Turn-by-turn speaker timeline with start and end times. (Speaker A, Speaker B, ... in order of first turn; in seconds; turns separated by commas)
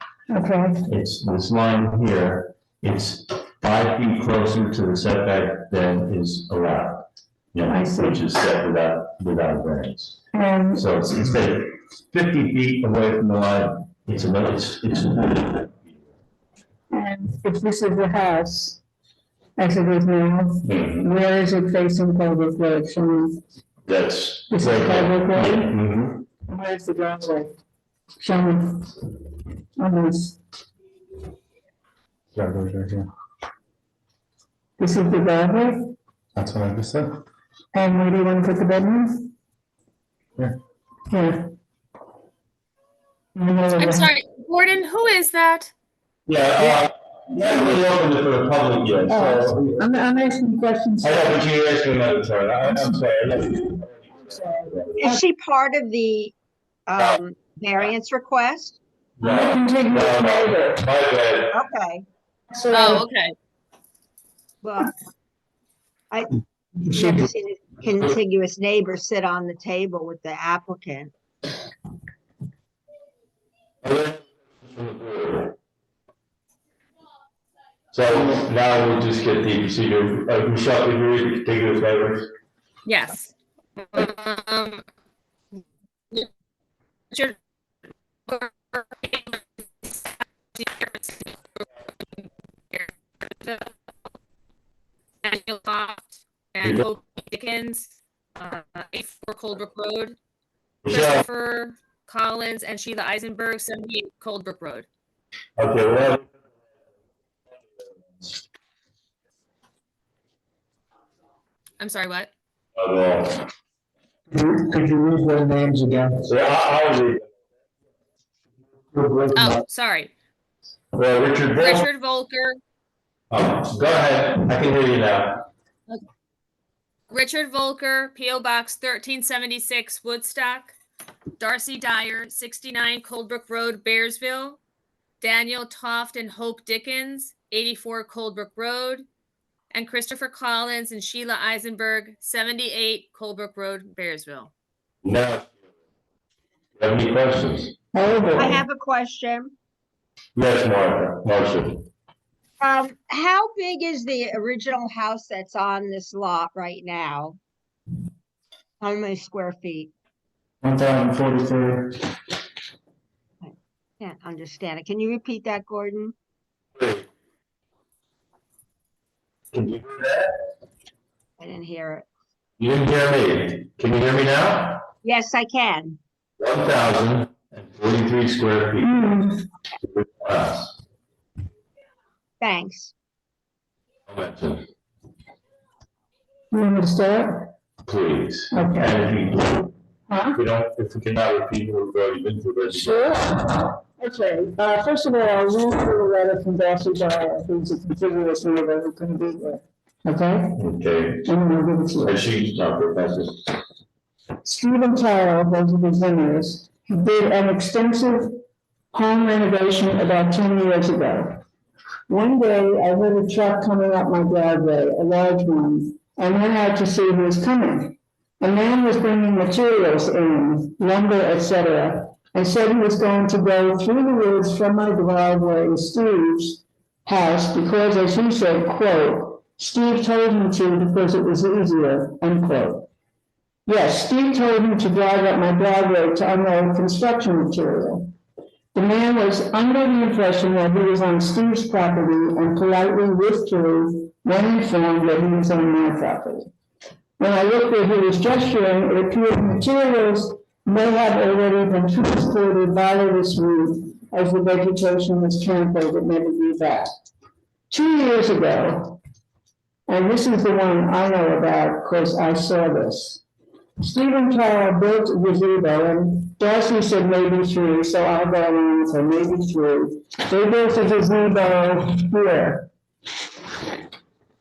Speaker A: 0.3-0.9, Speaker B: 0.9-10.2, Speaker A: 7.7-8.2, Speaker A: 10.3-10.9, Speaker B: 10.8-16.0, Speaker A: 16.9-18.8, Speaker A: 19.6-23.4, Speaker B: 20.6-21.1, Speaker B: 23.9-26.2, Speaker A: 24.5-25.8, Speaker A: 26.5-27.5, Speaker A: 28.2-28.9, Speaker A: 29.8-30.4, Speaker C: 32.4-33.1, Speaker A: 34.8-36.0, Speaker C: 36.4-37.2, Speaker A: 37.7-39.3, Speaker A: 41.1-41.5, Speaker A: 43.4-44.1, Speaker D: 43.8-45.7, Speaker B: 46.3-49.9, Speaker A: 49.1-51.4, Speaker B: 51.0-55.0, Speaker A: 52.6-53.0, Speaker A: 54.2-55.2, Speaker E: 55.0-56.3, Speaker E: 56.9-58.8, Speaker B: 59.2-61.6, Speaker A: 59.2-60.9, Speaker E: 61.5-62.1, Speaker A: 62.5-63.0, Speaker D: 62.7-63.3, Speaker E: 64.6-64.9, Speaker E: 66.1-71.1, Speaker B: 73.8-75.6, Speaker B: 77.9-82.3, Speaker D: 82.9-83.3, Speaker D: 83.9-84.8, Speaker D: 87.1-87.4, Speaker D: 88.3-91.7, Speaker D: 92.7-93.7, Speaker D: 95.2-100.2, Speaker B: 100.8-101.2, Speaker D: 100.9-104.9, Speaker B: 105.6-106.3, Speaker D: 111.8-112.3, Speaker B: 112.8-113.5, Speaker C: 114.3-116.2, Speaker B: 116.2-117.3, Speaker B: 119.0-119.3, Speaker D: 119.3-120.1, Speaker B: 120.9-121.9, Speaker D: 121.6-122.6, Speaker B: 123.3-125.5, Speaker D: 127.1-130.7, Speaker D: 131.4-134.6, Speaker D: 135.2-139.1, Speaker D: 139.7-144.5, Speaker B: 145.0-145.5, Speaker B: 146.8-147.7, Speaker A: 147.9-148.6, Speaker E: 148.4-149.5, Speaker B: 150.3-151.9, Speaker E: 152.6-157.4, Speaker E: 158.8-159.9, Speaker C: 160.6-161.9, Speaker E: 163.4-166.1, Speaker B: 166.8-167.1, Speaker B: 169.5-170.3, Speaker E: 171.4-172.1, Speaker B: 172.6-174.8, Speaker E: 175.0-176.0, Speaker B: 176.4-178.9, Speaker A: 178.8-179.5, Speaker B: 179.8-180.8, Speaker E: 182.4-182.9, Speaker B: 184.1-184.7, Speaker A: 186.5-187.5, Speaker B: 187.8-189.7, Speaker A: 188.5-189.1, Speaker A: 190.1-190.4, Speaker B: 190.3-193.0, Speaker A: 192.7-200.6, Speaker B: 200.6-201.3, Speaker A: 201.2-202.2, Speaker B: 202.0-203.5, Speaker A: 204.4-208.4, Speaker A: 208.9-211.4, Speaker A: 212.1-232.9, Speaker A: 233.7-238.1, Speaker A: 238.7-246.5, Speaker A: 247.2-256.9, Speaker A: 257.7-259.0, Speaker A: 259.9-263.2, Speaker A: 263.8-272.7